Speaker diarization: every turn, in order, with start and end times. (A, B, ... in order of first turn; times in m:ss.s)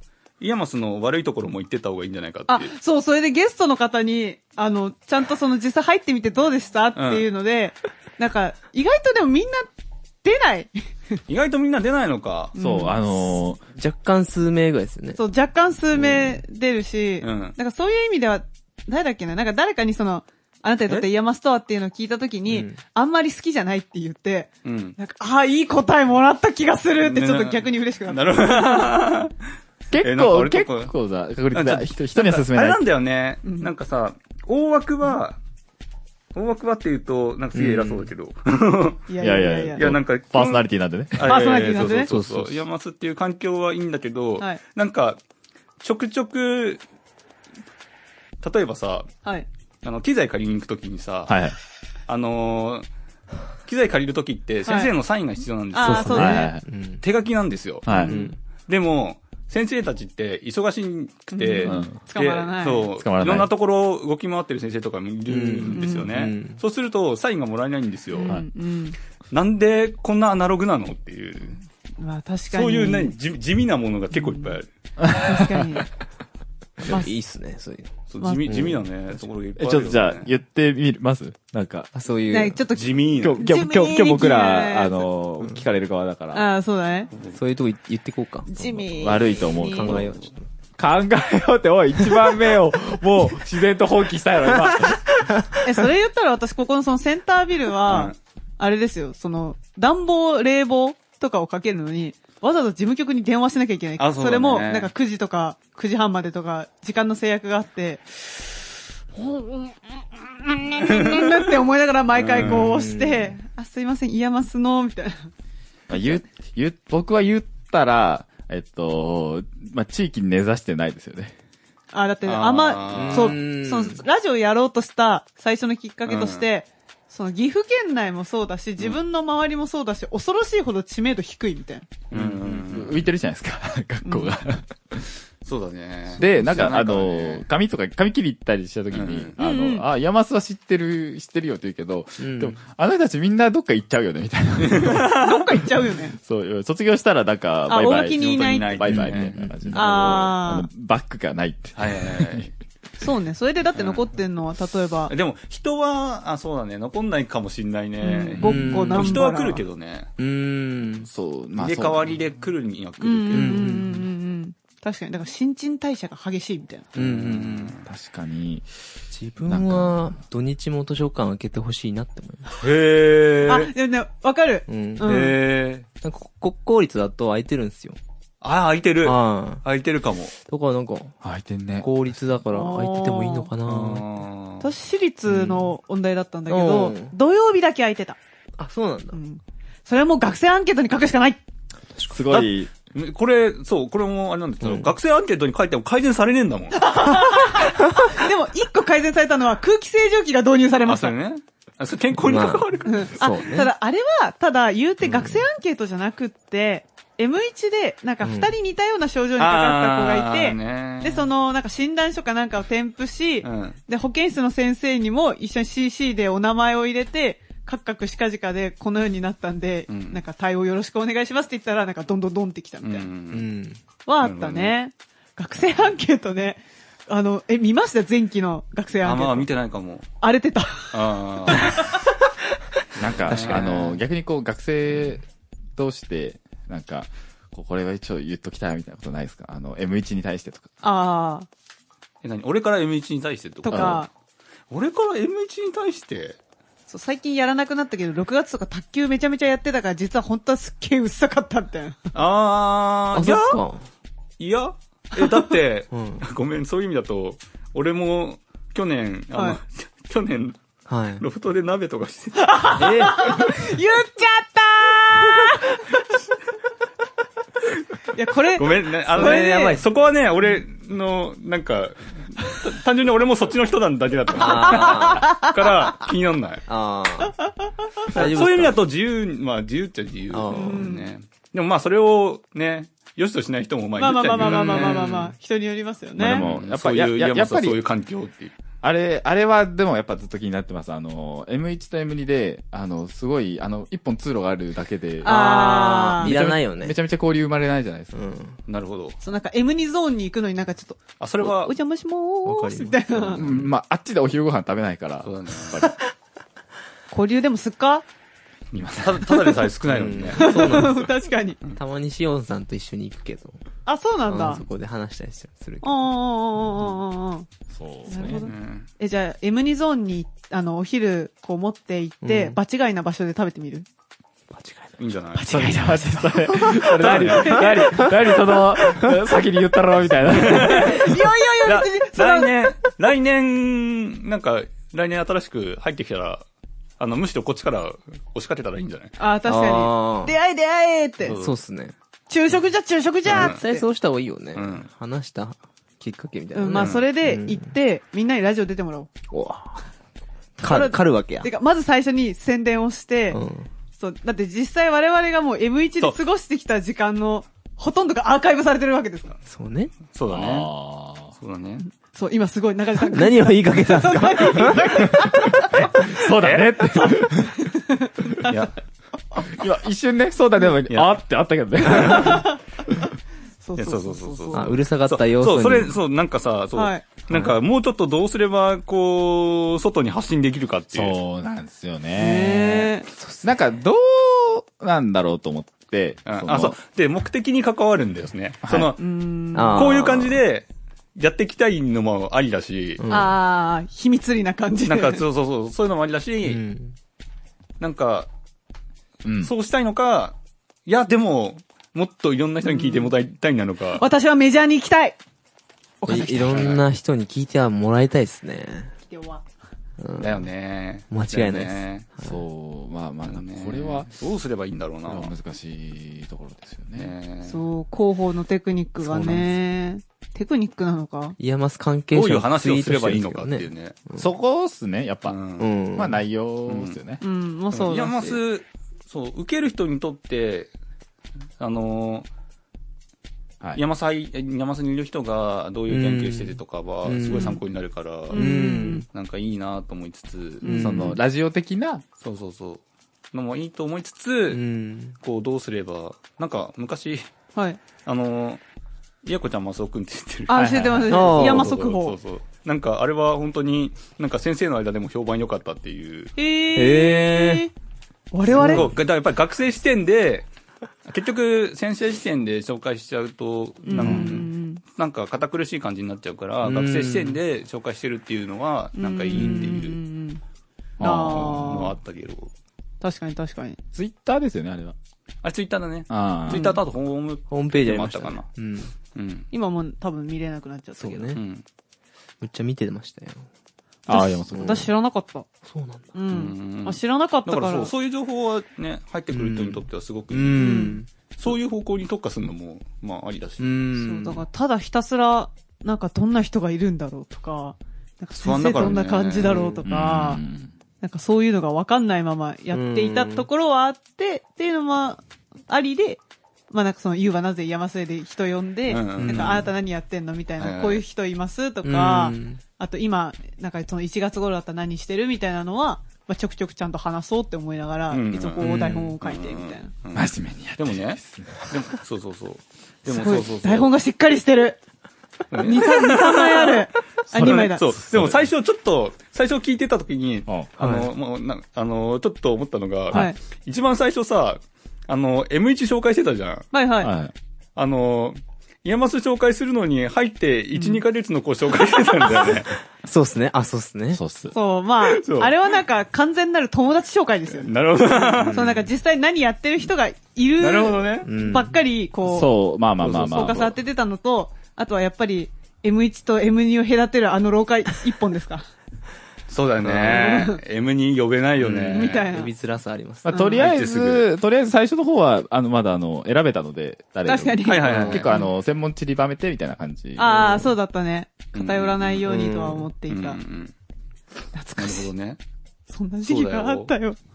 0:00.4-0:02.7 A
0:02.5-0:09.7 B
0:07.0-0:07.2 A
0:10.2-0:10.7 B
0:11.3-0:12.5 A
0:12.6-0:13.0 B
0:12.6-0:13.6 C
0:13.7-0:15.2 D
0:15.2-0:28.9 B
0:16.0-0:16.4 D
0:17.2-0:17.6 A
0:22.5-0:22.8 D
0:24.6-0:25.0 A
0:27.0-0:29.3 A
0:29.9-0:32.8 C
0:30.0-0:30.9 A
0:31.5-0:35.4 A
0:33.4-0:33.7 B
0:36.4-0:39.1 A
0:37.5-0:38.1 D
0:39.1-0:39.8 B
0:39.2-0:41.3 C
0:39.8-0:45.2 A
0:41.2-0:42.1 B
0:42.1-0:42.5 C
0:45.8-0:46.8 A
0:48.4-0:49.1 A
0:49.8-0:51.4 A
0:51.3-0:51.6 C
0:52.1-0:52.9 A
0:53.7-0:56.3 A
0:54.7-0:54.9 B
0:55.7-0:56.5 B
0:55.8-0:57.0 D
0:56.1-0:56.6 C
0:57.0-1:08.4 A
0:57.9-0:58.1 C
0:57.9-0:58.3 B
0:58.1-0:58.4 D
1:01.3-1:02.9 B
1:01.6-1:02.0 C
1:03.0-1:03.5 C
1:05.3-1:06.6 D
1:05.7-1:06.1 B
1:08.1-1:09.0 B
1:09.3-1:11.6 A
1:12.0-1:13.1 B
1:12.5-1:14.7 A
1:14.1-1:14.6 B
1:15.0-1:15.6 C
1:15.1-1:15.9 B
1:16.8-1:17.9 D
1:16.8-1:17.1 B
1:18.1-1:20.3 A
1:18.2-1:18.6 B
1:18.4-1:18.8 D
1:19.6-1:21.9 C
1:21.9-1:22.6 D
1:22.3-1:25.0 B
1:22.7-1:23.4 A
1:23.2-1:26.4 C
1:26.3-1:27.1 B
1:27.1-1:27.4 A
1:27.3-1:30.4 D
1:28.5-1:30.0 B
1:29.0-1:30.2 C
1:30.8-1:35.3 C
1:35.6-1:48.3 B
1:37.9-1:38.2 A
1:44.0-1:44.9 A
1:49.2-1:49.8 B
1:50.4-1:55.3 B
1:50.9-1:51.4 A
1:52.1-1:52.7 A
1:52.4-1:53.3 D
1:55.9-2:01.3 C
2:01.9-2:11.9 B
2:02.2-2:03.4 A
2:02.9-2:04.0 D
2:06.1-2:06.5 A
2:12.1-2:13.0 A
2:12.1-2:15.2 C
2:12.2-2:12.6 D
2:15.4-2:17.4 A
2:16.2-2:25.1 C
2:18.9-2:19.3 A
2:19.4-2:19.8 B
2:22.2-2:22.6 D
2:24.6-2:25.5 A
2:25.1-2:26.2 B
2:26.2-2:32.5 C
2:27.7-2:29.0 B
2:28.1-2:29.4 A
2:28.9-2:29.9 D
2:29.7-2:30.7 B
2:31.8-2:32.5 A
2:33.0-2:35.1 B
2:33.8-2:34.1 A
2:35.1-2:40.1 A
2:38.0-2:39.6 B
2:38.4-2:39.2 D
2:40.2-2:41.1 D
2:41.1-2:42.1 C
2:41.6-2:43.7 A
2:43.0-2:46.9 B
2:43.3-2:44.1 D
2:47.0-2:47.8 A
2:47.0-2:47.8 D
2:47.8-2:48.7 C
2:49.1-2:52.5 D
2:49.5-2:50.2 C
2:52.6-2:53.7 A
2:53.5-2:55.4 B
2:54.7-2:55.3 D
2:55.0-2:55.9 A
2:56.0-2:58.0 D
2:58.4-3:00.3 A
2:59.0-2:59.6 D
3:00.4-3:01.2 D
3:01.2-3:01.9 C
3:01.8-3:04.2 D
3:02.5-3:03.5 B
3:03.6-3:04.7 A
3:04.6-3:08.2 B
3:05.3-3:05.8 D
3:06.5-3:07.1 D
3:08.6-3:09.2 D
3:09.1-3:11.4 B
3:12.1-3:12.7 C
3:12.3-3:17.1 A
3:14.6-3:14.9 D
3:16.8-3:21.1 B
3:20.8-3:23.1 A
3:22.2-3:23.7 D
3:22.8-3:43.1 B
3:25.0-3:25.4 D
3:28.2-3:28.5 D
3:29.4-3:31.3 A
3:33.4-3:33.8 A
3:39.9-3:40.2 A
3:42.8-3:43.5 A
3:43.3-3:43.8 D
3:44.1-3:49.5 B
3:44.2-3:44.8 A
3:49.0-3:50.1 A
3:50.2-3:51.9 B
3:50.9-3:51.8 A
3:53.0-3:55.2 C
3:53.0-3:53.8 A
3:53.3-3:54.0 D
3:55.8-4:00.7 C
4:00.8-4:01.5 B
4:02.2-4:04.0 A
4:03.6-4:04.1 B
4:03.7-4:04.0 C
4:04.7-4:06.4 A
4:06.9-4:12.0 B
4:12.1-4:13.6 A
4:13.1-4:13.8 D
4:14.4-4:20.6 A
4:15.9-4:16.2 D
4:19.3-4:19.6 B
4:20.9-4:21.2 D
4:21.2-4:22.7 A
4:22.4-4:25.9 B
4:22.8-4:23.5 D
4:28.2-4:29.8 B
4:28.6-4:36.7 A
4:29.1-4:29.8 D
4:34.3-4:35.3 D
4:34.4-4:35.5 B
4:36.7-4:37.4 D
4:37.2-4:38.1 B
4:38.1-4:38.8 D
4:38.1-4:45.1 A
4:40.3-4:40.9 D
4:40.5-4:41.1 B
4:44.0-4:46.5 B
4:44.4-4:45.3 D
4:46.2-4:47.8 C
4:46.2-4:48.5 A
4:48.8-4:58.2 C
4:55.2-4:56.3 B
4:55.2-4:57.0 D
4:58.1-4:58.6 D
4:58.7-4:59.2 A
4:59.2-5:03.5 B
5:01.2-5:01.7 A
5:02.4-5:03.7 D
5:03.4-5:05.9 C
5:05.2-5:05.9 A
5:07.1-5:08.0 B
5:08.7-5:10.9 A
5:08.8-5:09.2 C
5:09.9-5:11.1 D
5:10.4-5:11.6 B
5:11.8-5:13.6 D
5:13.9-5:14.6 B
5:14.3-5:16.0 D
5:15.8-5:17.5 B
5:17.7-5:18.4 C
5:18.1-5:23.9 B
5:18.4-5:18.9 A
5:22.2-5:22.6 D
5:24.5-5:25.0 D
5:25.0-5:25.7 A
5:25.4-5:27.8 B
5:25.5-5:31.1 C
5:26.7-5:28.0 A
5:30.3-5:36.4 A
5:30.7-5:32.7 B
5:37.0-5:39.1 A
5:39.2-5:41.4 B
5:39.4-5:40.3 D
5:41.2-5:41.6 A
5:41.3-5:42.0 D
5:42.3-5:43.8 B
5:43.3-5:43.6 A
5:43.3-5:47.6 D
5:44.5-5:44.9 A
5:46.5-5:49.1 B
5:46.8-5:47.0 A
5:49.3-5:49.8 D
5:50.6-5:51.5 D
5:50.6-5:53.4 B
5:53.3-5:53.7 D
5:54.0-5:59.4 B
5:59.5-6:00.0 D
6:00.1-6:00.7 A
6:00.3-6:01.3 C
6:01.4-6:01.8 A
6:01.9-6:06.2 B
6:03.0-6:05.2 D
6:05.8-6:07.6 C
6:06.2-6:06.8 A
6:06.9-6:08.6 B
6:08.5-6:08.8 A
6:09.5-6:12.5 C
6:12.1-6:12.6 B
6:13.6-6:14.8 B
6:13.8-6:21.2 A
6:14.5-6:16.0 D
6:16.8-6:17.1 B
6:20.9-6:22.9 C
6:22.2-6:23.1 B
6:23.2-6:23.5 D
6:23.4-6:26.8 C
6:26.3-6:29.0 A
6:28.6-6:28.9 C
6:29.0-6:30.0 B
6:29.6-6:30.4 D
6:29.7-6:33.0 A
6:33.0-6:33.4 D
6:33.1-6:35.2 B
6:34.9-6:36.6 A
6:36.4-6:37.0 D
6:37.8-6:38.3 A
6:39.2-6:39.5 C
6:39.4-6:40.4 A
6:40.9-6:44.0 A
6:42.7-6:43.1 B
6:44.0-6:45.2 B
6:46.0-6:46.7 B
6:46.1-6:48.9 D
6:46.5-6:46.8 A
6:49.1-6:49.4 B
6:50.0-6:50.5 D
6:50.2-6:52.1 A
6:51.1-6:52.4 D
6:52.2-6:54.1 C
6:53.3-6:55.3 A
6:55.0-6:57.1 C
6:57.0-6:57.6 A
6:57.4-7:01.4 B
6:59.0-6:59.5 D
7:01.4-7:04.3 D
7:02.1-7:04.0 A
7:04.2-7:05.4 C
7:05.3-7:05.7 A
7:05.6-7:06.2 D
7:05.9-7:07.2 C
7:06.7-7:07.0 A
7:07.2-7:08.4 B
7:07.7-7:10.7 A
7:11.6-7:12.3 A
7:13.8-7:20.8 A
7:15.9-7:17.6 D
7:18.3-7:19.1 B
7:18.3-7:19.1 D
7:20.6-7:21.1 B
7:20.6-7:21.2 D
7:20.8-7:22.0 C
7:22.2-7:22.8 A
7:23.3-7:24.6 A
7:24.5-7:25.2 D
7:25.2-7:27.3 A
7:28.0-7:28.6 A
7:29.2-7:36.3 A
7:30.5-7:32.2 B
7:30.5-7:31.1 C
7:31.1-7:31.7 D
7:36.4-7:37.7 B
7:36.8-7:37.7 D
7:38.3-7:38.9 B
7:38.5-7:38.9 D
7:38.5-7:40.5 A
7:41.1-7:50.0 A
7:43.8-7:44.8 B
7:46.6-7:47.4 D
7:49.0-7:50.4 B
7:49.3-7:49.8 D
7:51.0-7:51.6 C
7:51.0-7:52.0 B
7:51.1-7:52.5 A
7:53.0-7:53.8 B
7:53.9-7:55.0 C
7:55.4-7:58.5 A
7:56.1-7:56.7 C
7:57.5-7:58.9 D
7:59.2-7:59.5 A
7:59.5-8:01.4 B
8:01.0-8:01.4 D
8:01.3-8:01.6 A
8:02.4-8:03.5 D
8:04.1-8:04.9 C
8:04.1-8:05.5 B
8:04.5-8:04.8 D
8:05.6-8:06.1 D
8:06.1-8:07.9 B
8:06.3-8:13.8 A
8:09.3-8:11.1 D
8:10.6-8:11.0 B
8:13.6-8:14.4 D
8:14.0-8:20.4 B
8:18.4-8:19.7 A
8:19.4-8:19.8 D
8:19.8-8:20.7 C
8:21.0-8:26.2 B
8:22.7-8:23.5 D
8:26.7-8:39.9 B
8:28.9-8:29.7 A
8:29.2-8:29.7 D
8:30.6-8:31.0 A
8:31.8-8:32.6 D
8:38.1-8:43.9 A
8:38.6-8:39.2 D
8:40.1-8:41.8 C
8:43.1-8:44.8 B
8:45.5-8:56.7 A
8:45.6-8:47.9 B
8:47.3-8:48.4 C
8:50.8-8:51.1 D
8:56.7-8:57.1 B
8:57.0-8:57.3 C
8:57.8-9:02.7 A
9:00.8-9:01.0 B
9:03.0-9:04.2 D
9:04.1-9:04.5 C
9:04.5-9:12.5 B
9:05.0-9:05.6 A
9:07.5-9:08.8 A
9:08.4-9:08.8 D
9:10.6-9:11.3 A
9:11.2-9:11.8 D
9:12.2-9:13.7 C
9:13.0-9:13.7 A
9:13.2-9:18.6 B
9:19.5-9:22.3 A
9:19.9-9:20.6 B
9:21.6-9:23.5 D
9:21.9-9:22.5 B
9:23.2-9:30.4 C
9:23.3-9:23.6 B
9:23.6-9:24.3 A
9:27.3-9:28.5 B
9:27.6-9:28.3 A
9:30.2-9:33.4 B
9:30.2-9:30.7 D
9:31.5-9:32.3 A
9:32.3-9:32.9 D
9:33.1-9:33.7 A
9:34.5-9:35.1 B
9:34.8-9:35.4 A
9:35.9-9:37.2 B
9:36.3-9:36.9 A